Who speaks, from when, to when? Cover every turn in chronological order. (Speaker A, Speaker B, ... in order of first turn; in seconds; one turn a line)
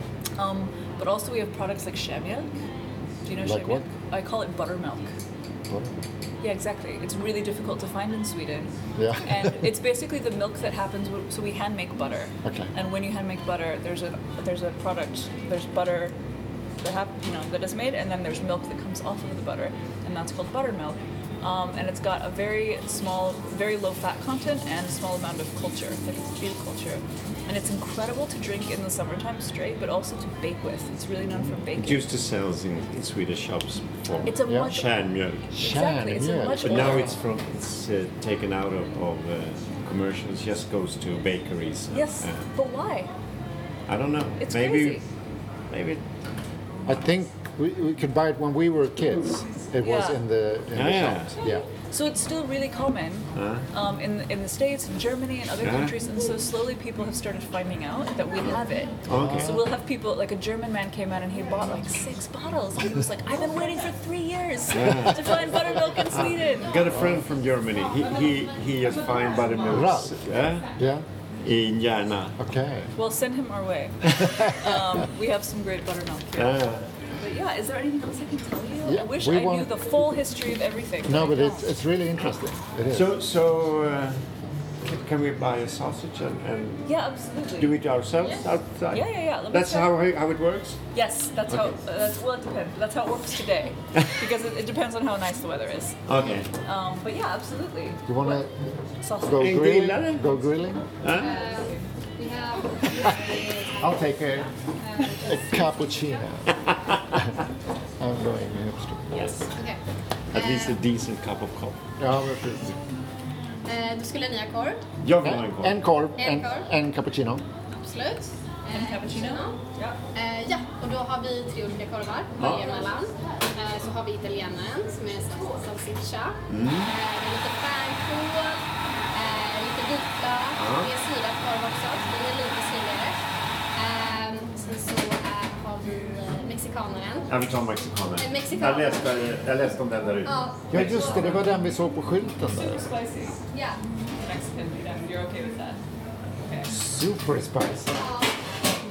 Speaker A: 0.4-2.6
Speaker A: 3.2-5.1
Speaker B: 3.4-3.9
Speaker B: 5.7-6.0
Speaker A: 6.4-16.2
Speaker B: 8.9-9.6
Speaker B: 12.4-12.7
Speaker A: 16.8-32.1
Speaker B: 31.3-31.6
Speaker C: 31.8-35.5
Speaker A: 34.2-34.9
Speaker B: 34.5-34.8
Speaker B: 35.5-37.2
Speaker A: 35.5-37.1
Speaker C: 36.6-42.5
Speaker A: 41.9-43.1
Speaker C: 43.9-45.0
Speaker A: 44.4-45.0
Speaker C: 45.7-46.0
Speaker B: 46.9-51.6
Speaker A: 49.8-50.2
Speaker C: 50.7-51.3
Speaker A: 51.4-66.8
Speaker C: 53.3-53.6
Speaker C: 55.6-55.9
Speaker C: 59.0-59.6
Speaker B: 59.1-59.6
Speaker C: 64.7-65.4
Speaker B: 65.5-66.2
Speaker C: 66.1-70.7
Speaker B: 67.0-67.2
Speaker B: 69.7-71.1
Speaker C: 71.4-72.3
Speaker B: 72.4-72.9
Speaker A: 72.9-76.6
Speaker B: 74.2-74.8
Speaker C: 76.3-76.9
Speaker A: 77.2-81.7
Speaker B: 78.8-79.7
Speaker B: 81.0-83.1
Speaker C: 82.9-84.2
Speaker C: 84.8-86.9
Speaker A: 86.8-87.7
Speaker C: 87.6-90.8
Speaker A: 88.9-89.9
Speaker A: 90.9-96.0
Speaker C: 96.1-96.5
Speaker A: 96.6-98.5
Speaker B: 98.0-98.5
Speaker A: 99.0-99.6
Speaker B: 99.2-100.9
Speaker C: 99.3-100.2
Speaker C: 101.0-101.3
Speaker A: 101.1-101.9
Speaker D: 101.1-105.7
Speaker B: 103.8-104.5
Speaker B: 105.2-106.5
Speaker B: 108.0-109.2
Speaker A: 109.1-109.5
Speaker D: 109.5-109.8
Speaker C: 110.3-111.8
Speaker D: 110.3-110.8
Speaker B: 112.0-112.8
Speaker D: 113.6-114.9
Speaker C: 115.0-115.8
Speaker B: 115.2-117.4
Speaker D: 116.2-116.7
Speaker D: 117.7-119.6
Speaker A: 118.7-120.0
Speaker D: 120.1-128.6
Speaker C: 122.4-122.8
Speaker C: 126.5-126.9
Speaker D: 129.1-133.2
Speaker C: 130.6-130.9
Speaker D: 133.7-137.3
Speaker C: 137.3-141.2
Speaker D: 138.2-139.2
Speaker D: 140.2-141.0
Speaker B: 140.7-142.9
Speaker A: 140.7-141.5
Speaker A: 142.5-143.4
Speaker D: 143.5-143.8
Speaker A: 144.2-145.8
Speaker A: 146.4-146.7
Speaker B: 146.7-148.0
Speaker D: 147.9-148.5